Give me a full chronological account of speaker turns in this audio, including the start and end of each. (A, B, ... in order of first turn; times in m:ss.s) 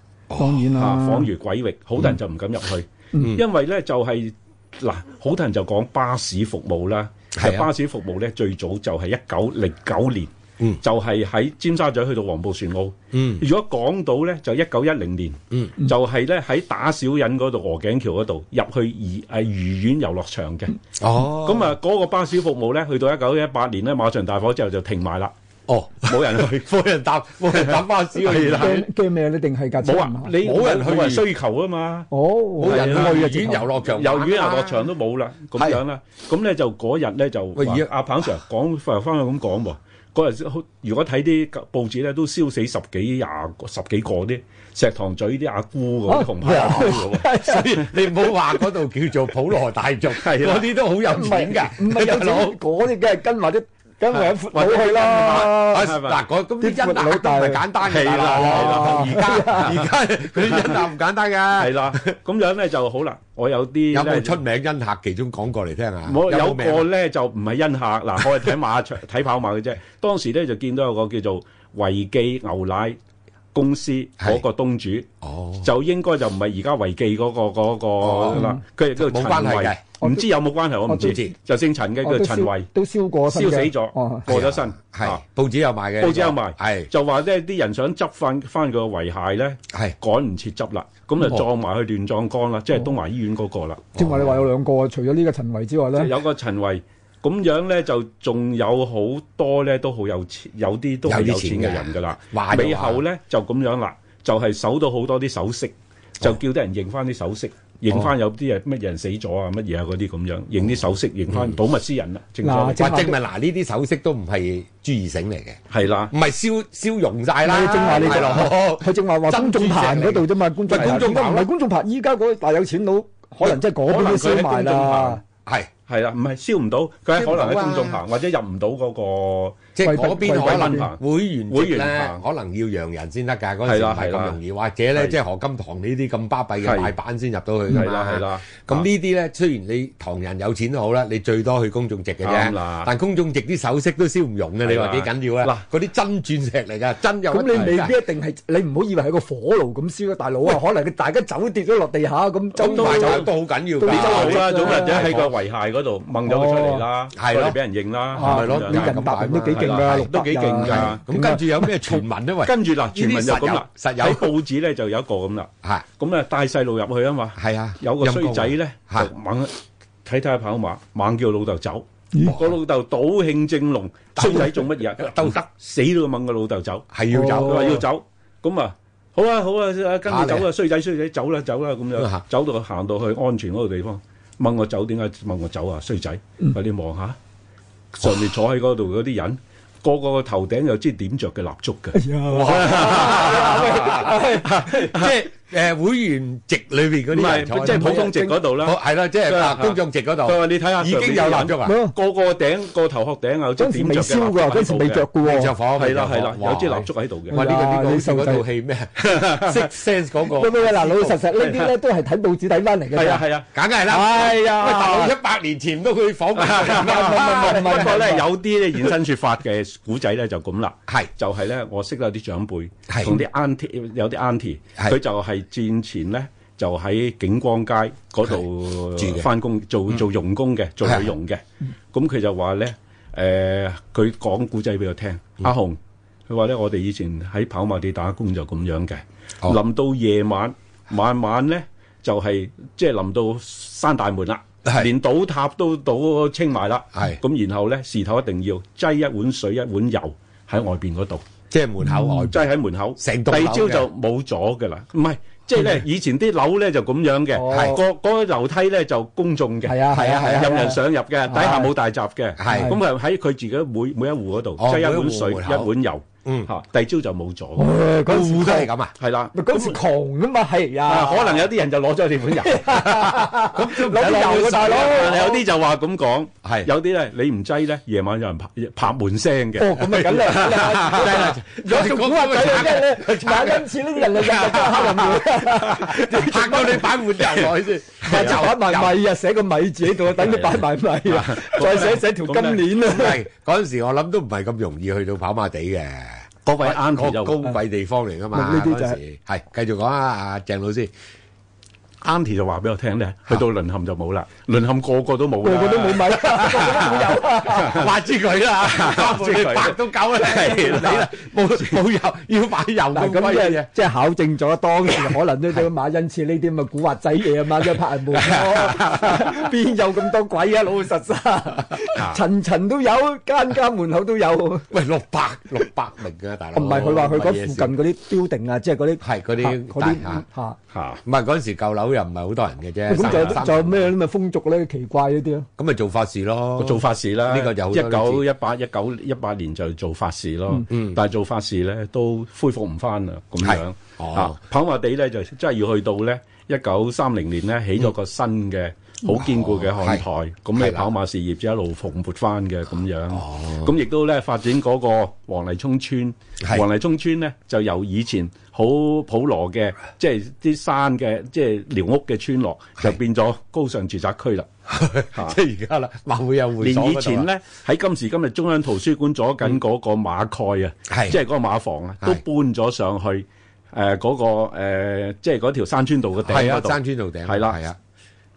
0:00.3-0:00.8 A
0:00.4-0:01.3 B
0:00.8-0:20.8 C
0:03.2-0:03.4 A
0:07.4-0:07.7 A
0:13.1-0:13.5 A
0:21.0-0:21.7 A
0:21.4-0:25.3 C
0:25.7-0:28.8 A
0:26.0-0:26.7 C
0:27.5-0:28.9 C
0:28.5-0:30.4 B
0:29.8-0:32.1 C
0:30.4-0:31.3 A
0:32.1-0:33.7 B
0:32.6-0:34.9 A
0:32.6-0:47.2 C
0:37.6-0:37.9 A
0:46.1-0:47.8 B
0:46.4-0:52.6 A
0:50.1-0:50.7 C
0:51.1-0:55.9 B
0:54.1-0:56.2 C
0:55.3-1:02.1 A
0:56.6-0:59.8 B
0:57.9-0:59.9 C
1:00.5-1:00.9 C
1:01.6-1:04.4 C
1:03.9-1:06.9 A
1:06.1-1:13.0 C
1:13.5-1:15.1 C
1:15.2-1:15.7 A
1:15.6-1:22.7 C
1:18.0-1:19.8 A
1:18.3-1:18.6 B
1:20.0-1:20.3 B
1:20.9-1:21.2 B
1:21.0-1:21.3 A
1:22.0-1:24.3 B
1:23.2-1:25.2 C
1:24.3-1:26.9 A
1:26.0-1:33.9 C
1:34.0-1:34.5 A
1:34.0-1:36.1 B
1:36.0-1:52.9 C
1:41.1-1:43.0 A
1:52.4-1:53.2 B
1:52.8-1:55.6 A
1:55.7-1:56.1 C
1:56.1-2:01.5 A
1:57.4-2:05.2 B
1:57.9-1:58.2 C
2:00.7-2:01.0 C
2:03.4-2:05.2 C
2:05.9-2:12.2 C
2:07.1-2:08.0 A
2:09.8-2:28.1 A
2:09.8-2:10.9 B
2:13.6-2:14.4 C
2:16.6-2:16.9 C
2:17.7-2:18.9 C
2:22.2-2:22.9 C
2:24.6-2:25.6 C
2:27.3-2:35.2 B
2:27.5-2:27.8 C
2:32.6-2:33.3 C
2:32.6-2:35.3 A
2:33.9-2:39.0 C
2:36.2-2:36.8 B
2:37.1-2:37.6 A
2:38.1-2:44.3 A
2:38.2-2:41.7 B
2:39.6-2:41.0 C
2:42.4-2:49.5 C
2:47.4-2:49.1 A
2:50.0-3:07.2 C
2:54.2-2:55.4 A
2:56.9-2:57.8 A
2:57.1-2:57.9 B
3:00.1-3:00.5 A
3:02.0-3:02.2 A
3:07.9-3:15.1 C
3:12.0-3:14.6 B
3:12.3-3:21.8 A
3:17.1-3:25.1 C
3:17.5-3:18.4 B
3:21.6-3:22.0 B
3:23.6-3:25.6 B
3:25.2-3:31.2 A
3:25.8-3:27.4 C
3:27.3-3:28.5 B
3:29.0-3:29.7 C
3:30.3-3:33.2 B
3:31.4-3:31.7 C
3:32.9-3:33.5 C
3:33.5-3:38.0 A
3:33.9-3:35.1 B
3:36.4-3:51.4 C
3:36.6-3:38.2 B
3:42.9-3:43.2 A
3:49.0-3:49.3 A
3:50.8-3:51.1 A
3:51.9-4:11.2 C
4:07.0-4:07.2 A
4:11.5-4:12.4 A
4:12.3-4:27.8 C
4:13.0-4:13.9 A
4:17.3-4:17.8 B
4:17.5-4:17.8 A
4:19.6-4:21.7 B
4:19.9-4:20.5 A
4:22.4-4:22.8 A
4:22.5-4:22.8 B
4:24.6-4:25.7 A
4:26.2-4:26.5 A
4:27.6-4:28.7 B
4:28.0-4:29.0 A
4:29.0-4:29.8 C
4:29.3-4:31.5 B
4:30.8-4:32.7 C
4:32.4-4:35.4 B
4:32.6-4:35.4 A
4:33.9-4:41.8 C
4:36.4-4:36.7 A
4:39.6-4:46.9 B
4:39.8-4:49.0 A
4:48.0-4:53.2 B
4:48.1-4:48.4 C
4:50.0-4:53.1 C
4:52.8-5:00.9 A
4:56.5-4:57.4 C
4:58.3-4:59.0 B
5:02.0-5:07.9 C
5:05.4-5:07.9 B
5:06.8-5:13.7 A
5:08.6-5:11.8 C
5:12.9-5:24.7 B
5:18.1-5:19.2 A
5:18.4-5:19.0 C
5:22.0-5:22.2 C
5:24.7-5:27.7 A
5:26.5-5:30.6 B
5:29.0-5:30.2 A
5:30.7-5:31.0 C
5:31.0-5:33.9 A
5:32.9-5:35.5 B
5:33.0-5:33.4 C
5:35.6-5:38.2 A
5:36.6-6:04.5 C
5:40.7-5:41.0 A
5:43.4-5:44.4 A
5:49.1-5:50.0 A
5:50.6-5:50.9 A
5:53.1-5:53.7 A
6:04.7-6:07.3 A
6:06.6-6:17.6 C
6:10.9-6:11.2 A
6:16.2-6:17.8 A